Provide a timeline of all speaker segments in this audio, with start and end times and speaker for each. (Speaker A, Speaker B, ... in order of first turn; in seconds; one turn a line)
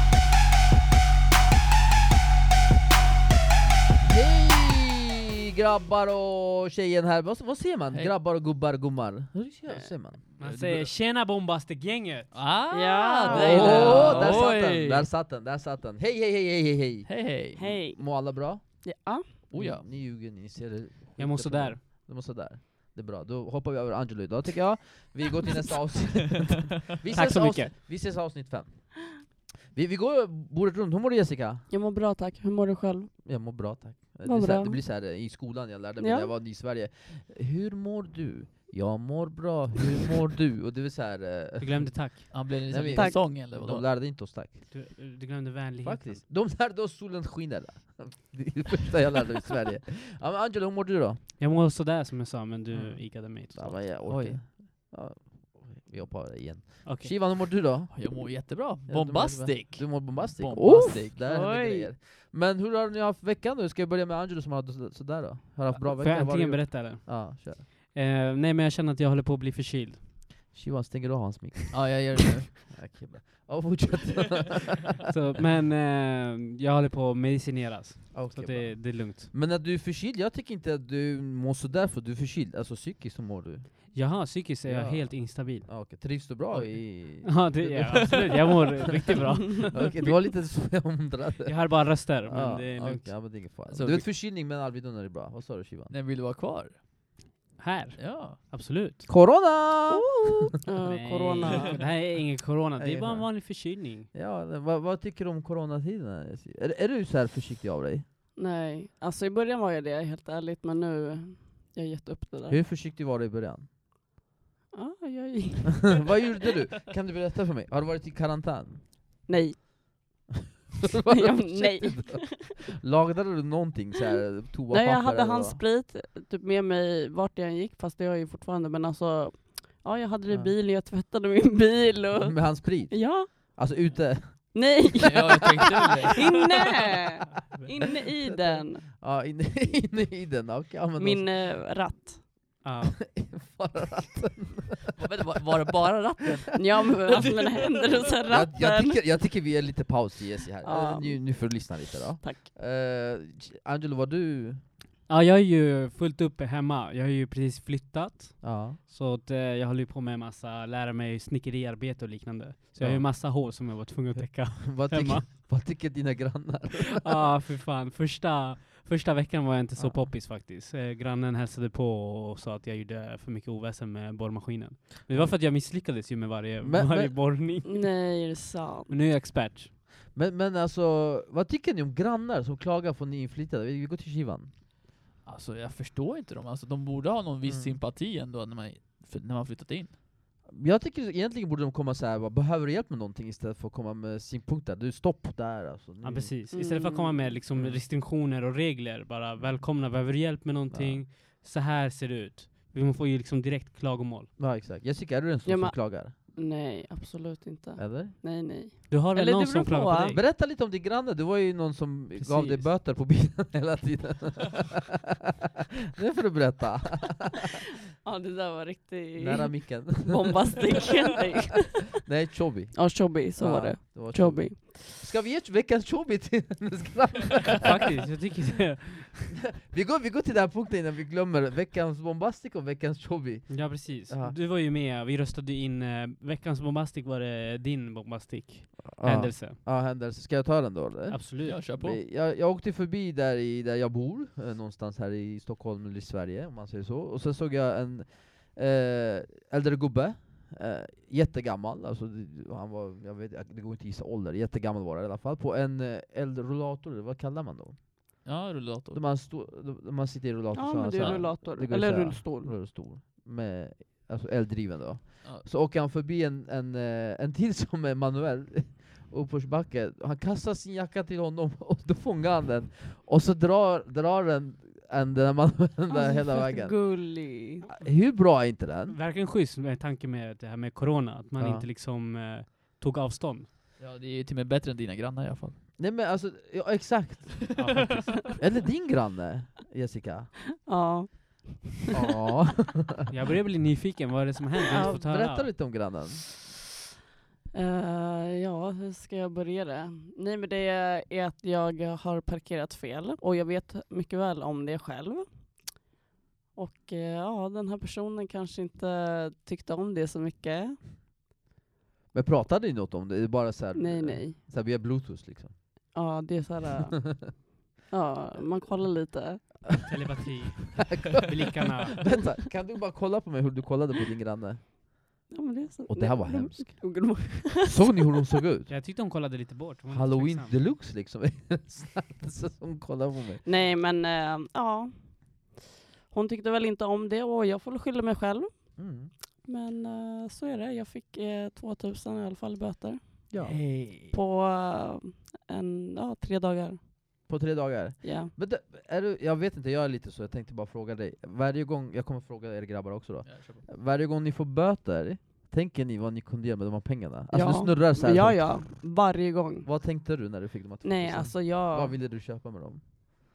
Speaker A: 4.0-10.9
Speaker B: 10.4-12.4
Speaker C: 12.3-15.1
Speaker D: 12.7-14.5
Speaker A: 13.3-31.7
Speaker B: 13.6-14.0
Speaker C: 17.1-17.6
Speaker D: 17.5-19.3
Speaker C: 19.5-19.8
Speaker B: 21.2-21.8
Speaker B: 27.1-27.7
Speaker D: 31.7-33.6
Speaker A: 33.2-44.7
Speaker D: 34.2-34.8
Speaker D: 36.0-36.3
Speaker B: 41.6-42.5
Speaker C: 42.3-43.8
Speaker D: 42.9-43.2
Speaker B: 44.1-46.2
Speaker A: 45.8-51.2
Speaker B: 51.4-53.9
Speaker A: 52.7-67.7
Speaker C: 54.0-54.4
Speaker B: 56.8-57.1
Speaker C: 57.9-61.2
Speaker D: 61.2-61.9
Speaker B: 66.0-70.1
Speaker A: 70.5-74.9
Speaker C: 71.7-72.6
Speaker B: 75.1-79.3
Speaker A: 78.1-95.9
Speaker B: 83.9-85.8
Speaker B: 86.9-90.1
Speaker C: 87.9-88.5
Speaker B: 91.4-93.3
Speaker C: 93.7-94.0
Speaker C: 95.9-96.8
Speaker B: 97.6-99.0
Speaker C: 98.0-98.4
Speaker A: 99.1-100.5
Speaker D: 100.6-101.8
Speaker B: 100.8-104.1
Speaker A: 102.8-108.0
Speaker D: 108.4-112.6
Speaker A: 112.5-113.7
Speaker D: 114.7-116.1
Speaker A: 116.0-118.9
Speaker D: 119.3-120.1
Speaker A: 121.0-125.6
Speaker D: 121.1-122.5
Speaker D: 124.7-133.6
Speaker A: 132.2-134.7
Speaker D: 134.5-138.8
Speaker C: 135.0-136.2
Speaker A: 138.2-141.6
Speaker D: 141.0-142.3
Speaker B: 142.6-143.1
Speaker A: 143.0-144.9
Speaker C: 144.9-148.0
Speaker D: 146.5-149.1
Speaker A: 148.3-154.7
Speaker D: 150.6-152.4
Speaker B: 155.1-165.3
Speaker A: 158.4-158.8
Speaker A: 162.8-163.6
Speaker A: 164.6-167.3
Speaker B: 166.9-178.0
Speaker A: 169.8-170.1
Speaker A: 175.1-175.4
Speaker A: 176.6-177.2
Speaker D: 177.6-178.9
Speaker B: 178.9-179.7
Speaker A: 180.1-184.5
Speaker C: 185.2-189.9
Speaker A: 187.4-187.8
Speaker A: 190.4-196.3
Speaker B: 196.0-204.3
Speaker D: 196.5-197.3
Speaker A: 197.5-197.8
Speaker A: 199.4-199.6
Speaker A: 200.7-201.0
Speaker A: 204.4-206.1
Speaker D: 205.4-210.2
Speaker A: 207.8-208.1
Speaker B: 208.9-210.2
Speaker A: 210.1-214.9
Speaker B: 212.2-212.7
Speaker A: 216.0-217.4
Speaker D: 218.0-222.0
Speaker A: 219.2-220.3
Speaker A: 221.9-228.0
Speaker D: 222.7-224.9
Speaker B: 227.6-229.3
Speaker A: 229.6-234.4
Speaker B: 233.5-239.6
Speaker A: 238.8-258.2
Speaker B: 241.1-241.6
Speaker C: 241.4-242.0
Speaker C: 258.2-259.0
Speaker A: 258.9-279.0
Speaker D: 260.5-262.5
Speaker C: 261.0-261.2
Speaker D: 275.9-277.6
Speaker B: 278.9-283.5
Speaker A: 281.4-281.7
Speaker C: 283.8-285.6
Speaker A: 285.8-287.6
Speaker B: 287.6-288.4
Speaker A: 288.4-290.3
Speaker D: 290.6-291.8
Speaker A: 291.9-293.1
Speaker B: 293.1-295.7
Speaker A: 294.7-296.3
Speaker D: 294.7-294.9
Speaker D: 297.5-305.9
Speaker D: 306.5-310.8
Speaker A: 312.1-315.9
Speaker D: 313.7-314.4
Speaker D: 315.9-319.7
Speaker B: 319.8-322.2
Speaker A: 320.8-324.7
Speaker D: 325.3-328.0
Speaker A: 325.9-328.7
Speaker B: 328.7-330.7
Speaker A: 329.9-333.4
Speaker D: 333.4-335.6
Speaker D: 336.1-343.3
Speaker A: 338.8-339.1
Speaker A: 343.3-343.6
Speaker C: 343.4-344.1
Speaker D: 344.1-347.3
Speaker A: 347.3-358.9
Speaker D: 348.0-348.3
Speaker C: 353.2-353.6
Speaker D: 357.3-359.7
Speaker A: 359.6-362.8
Speaker D: 360.8-361.9